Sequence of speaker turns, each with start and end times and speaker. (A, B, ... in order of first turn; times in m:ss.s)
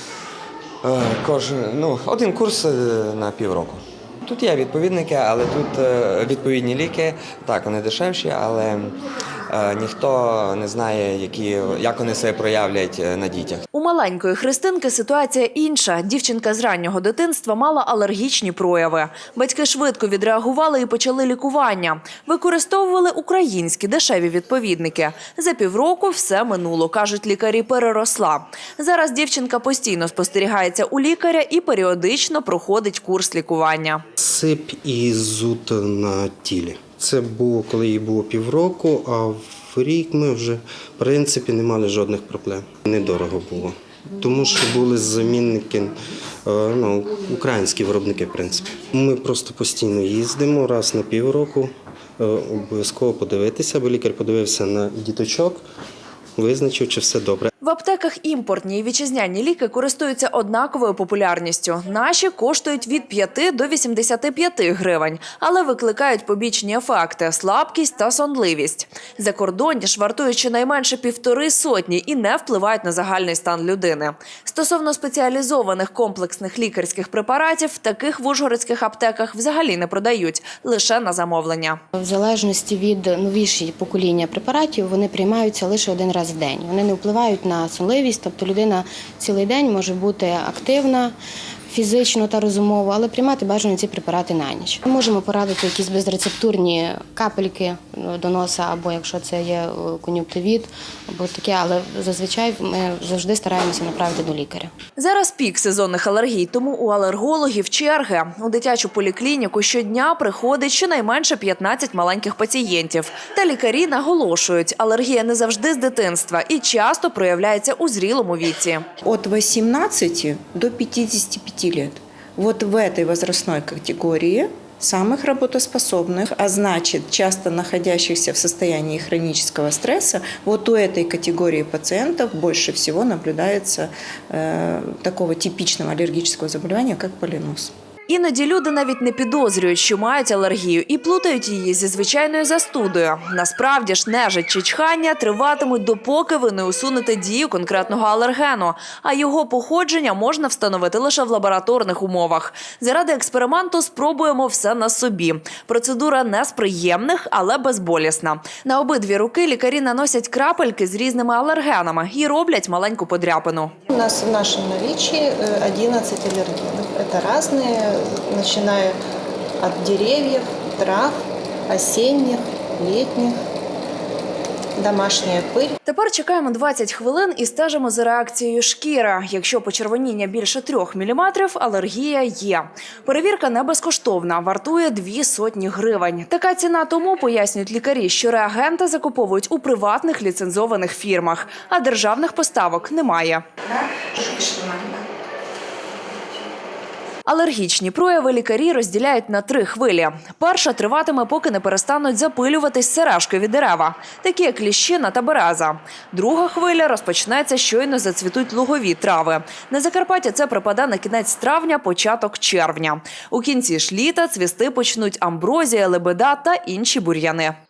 0:00.8-0:08.9 A
0:09.5-0:13.6 A
0:13.7-0:34.0 B
0:34.2-0:45.9 C
0:46.4-0:51.7 C
0:52.2-0:55.6 C
0:56.4-0:57.5 C
0:57.6-1:21.8 B
1:22.0-1:31.1 D
1:31.7-1:44.7 D
1:45.0-1:58.8 B
1:59.0-2:17.7 E
2:18.1-2:43.7 B
2:43.9-2:49.0 F
2:49.6-2:51.1 F
2:51.7-2:53.3 F
2:54.8-2:55.7 F
2:55.8-3:13.4 B
3:13.7-3:15.0 E
3:17.2-3:37.6 B